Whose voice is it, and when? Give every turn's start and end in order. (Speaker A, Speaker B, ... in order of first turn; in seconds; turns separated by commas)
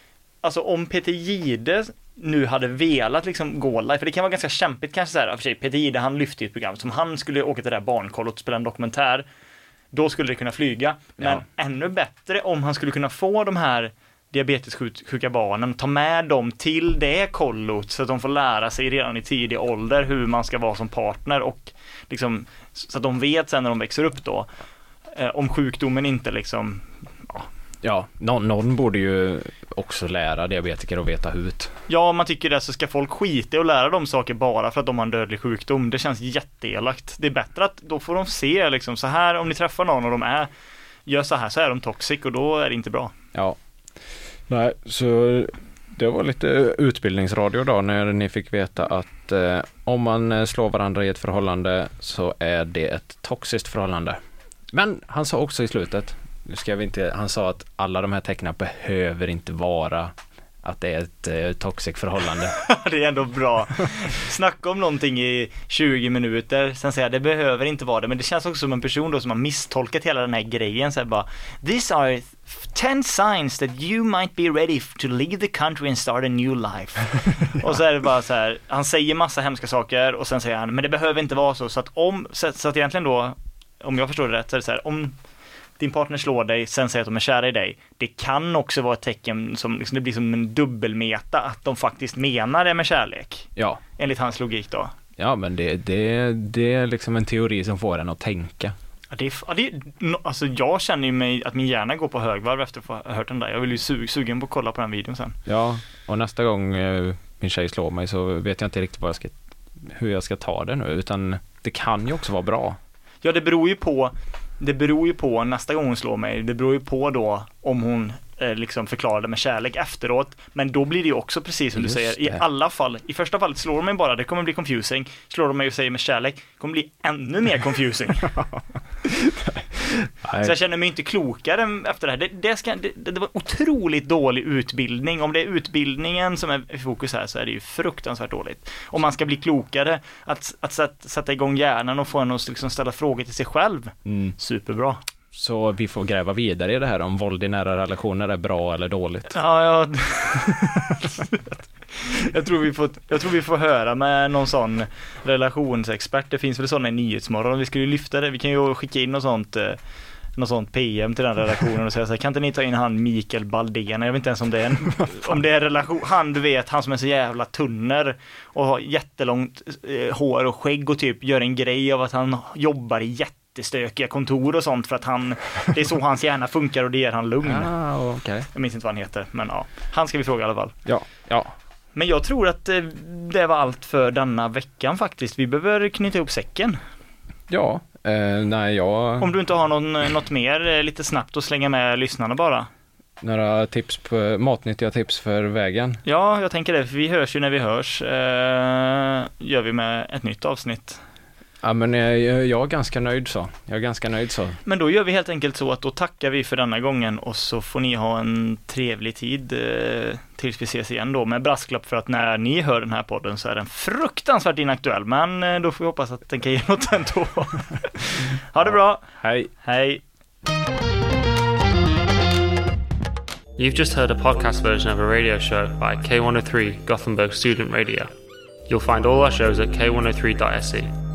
Speaker A: 0.4-9.2, Speaker A: 9.9-24.5, Speaker B: 11.2-11.4, Speaker A: 25.1-27.5, Speaker B: 27.8-31.8, Speaker A: 31.9-40.5, Speaker A: 41.1-43.1, Speaker B: 44.5-54.2, Speaker B: 54.7-62.6, Speaker A: 62.5-85.2, Speaker A: 85.8-94.9, Speaker B: 93.6-93.8, Speaker B: 95.2-98.8, Speaker A: 99.1-105.4, Speaker B: 105.5-112.8, Speaker A: 113.2-128.3, Speaker B: 121.8-122.4, Speaker B: 128.4-130.6, Speaker A: 130.4-145.0, Speaker B: 144.1-144.3, Speaker B: 145.3-149.4, Speaker A: 149.3-159.8, Speaker A: 160.4-177.7, Speaker B: 177.4-178.5, Speaker A: 178.5-180.8, Speaker B: 180.8-181.5, Speaker A: 181.9-186.8, Speaker B: 187.5-189.3, Speaker A: 189.2-192.7, Speaker B: 193.2-196.0, Speaker A: 196.1-201.0, Speaker B: 201.6-204.6, Speaker A: 204.7-220.0, Speaker B: 218.6-219.5, Speaker C: 223.6-228.1, Speaker C: 228.7-230.9